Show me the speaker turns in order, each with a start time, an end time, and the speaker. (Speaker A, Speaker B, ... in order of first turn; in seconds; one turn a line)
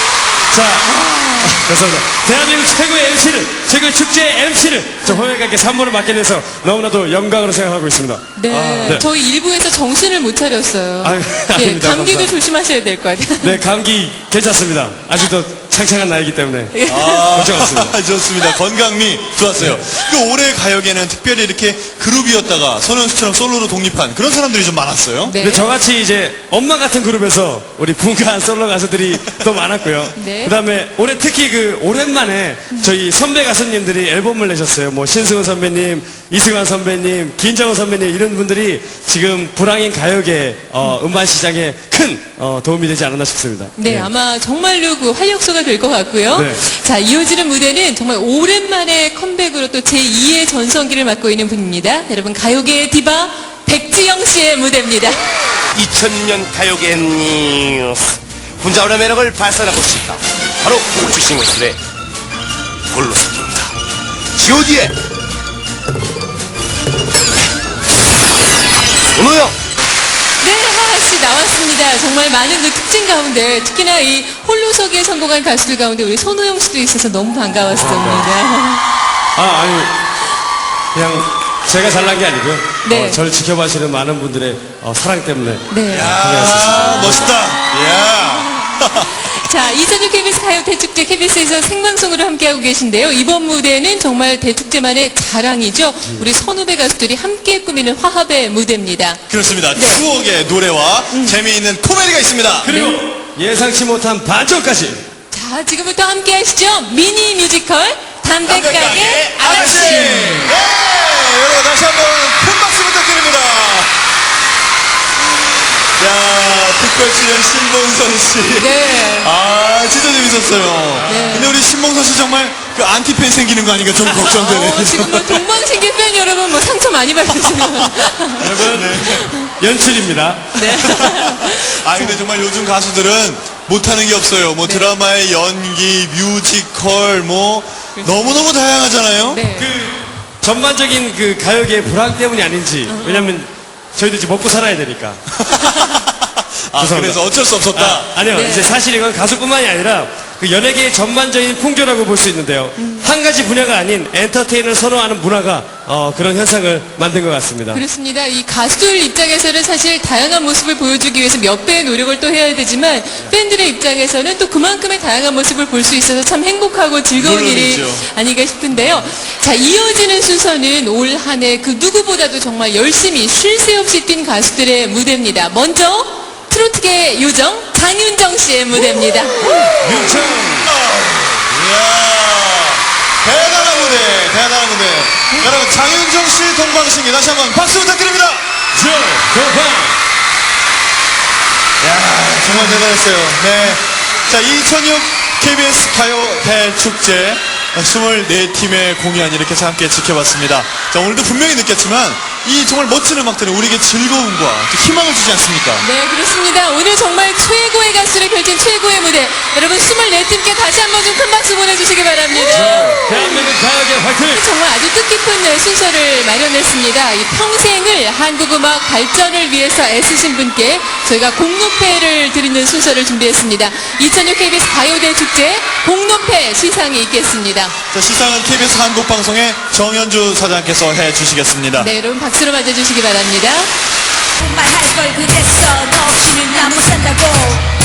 Speaker A: 0.5-9.1
Speaker B: 1.1-1.5
Speaker B: 8.3-13.6
Speaker C: 8.6-9.0
Speaker A: 11.0-12.4
Speaker A: 13.4-18.0
Speaker B: 16.7-17.3
Speaker C: 16.9-25.4
Speaker B: 25.2-25.7
Speaker A: 25.4-44.1
Speaker B: 30.1-30.6
Speaker B: 43.8-55.2
Speaker A: 46.3-46.6
Speaker D: 55.7-61.8
Speaker D: 62.9-63.7
Speaker D: 64.3-64.9
Speaker D: 69.1-69.5
Speaker B: 70.4-78.8
Speaker A: 77.7-78.3
Speaker A: 79.3-79.9
Speaker A: 80.9-87.4
Speaker B: 82.8-83.2
Speaker B: 85.7-87.3
Speaker C: 85.9-89.1
Speaker B: 89.1-99.2
Speaker C: 99.3-102.7
Speaker B: 99.7-100.0
Speaker B: 101.1-101.4
Speaker A: 102.6-105.0
Speaker B: 102.6-103.0
Speaker B: 105.3-110.5
Speaker C: 108.4-113.9
Speaker C: 116.0-125.4
Speaker B: 118.6-119.3
Speaker B: 121.1-121.6
Speaker B: 124.3-128.6
Speaker A: 128.4-129.0
Speaker C: 128.4-129.3
Speaker B: 129.1-129.5
Speaker A: 129.6-131.0
Speaker B: 130.5-132.2
Speaker C: 130.8-139.4
Speaker B: 134.6-134.9
Speaker B: 139.3-139.7
Speaker A: 139.6-145.2
Speaker B: 142.9-143.4
Speaker C: 145.4-148.1
Speaker A: 146.8-157.8
Speaker B: 148.3-148.8
Speaker B: 152.8-153.1
Speaker B: 157.7-179.7
Speaker C: 167.2-168.0
Speaker A: 179.7-180.7
Speaker C: 179.8-188.4
Speaker A: 188.7-190.0
Speaker C: 191.8-205.8
Speaker B: 205.8-213.5
Speaker A: 212.4-214.4
Speaker C: 212.7-213.0
Speaker B: 214.2-227.7
Speaker C: 227.9-231.9
Speaker B: 231.8-233.7
Speaker E: 234.4-237.6